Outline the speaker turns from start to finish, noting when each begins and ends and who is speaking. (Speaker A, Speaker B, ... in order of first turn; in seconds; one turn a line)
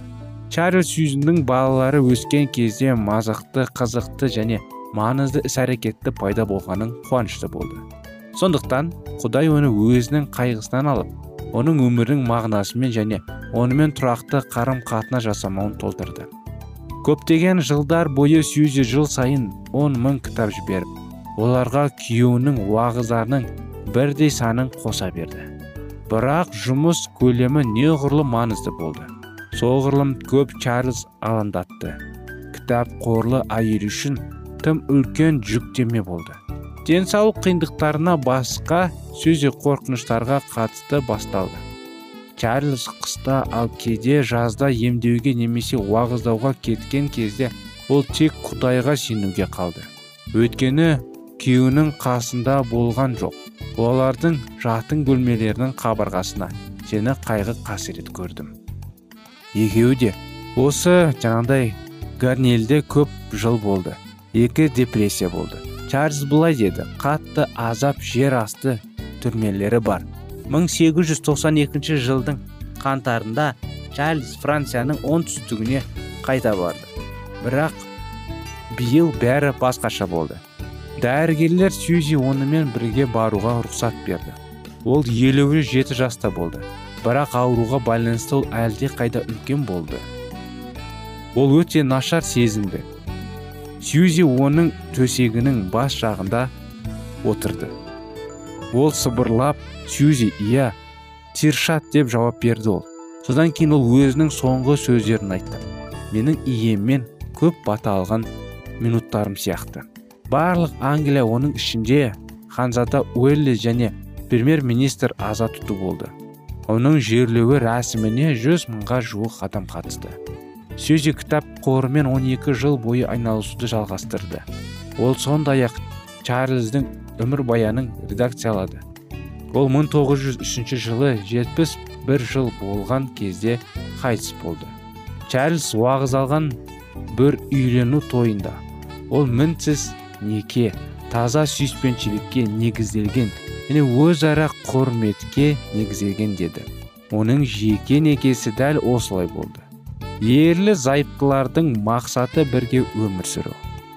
Speaker A: 0.5-16.3
Speaker A: 17.0-25.5
Speaker A: 26.1-32.0
Speaker A: 32.5-41.6
Speaker A: 42.4-58.5
Speaker A: 59.5-77.8
Speaker A: 78.7-80.4
Speaker A: 81.0-90.0
Speaker A: 91.3-92.9
Speaker A: 93.8-96.5
Speaker A: 97.2-97.7
Speaker A: 98.7-100.7
Speaker A: 101.3-116.1
Speaker A: 116.7-120.2
Speaker A: 120.8-124.5
Speaker A: 125.0-128.8
Speaker A: 129.5-134.7
Speaker A: 135.3-149.7
Speaker A: 150.2-153.6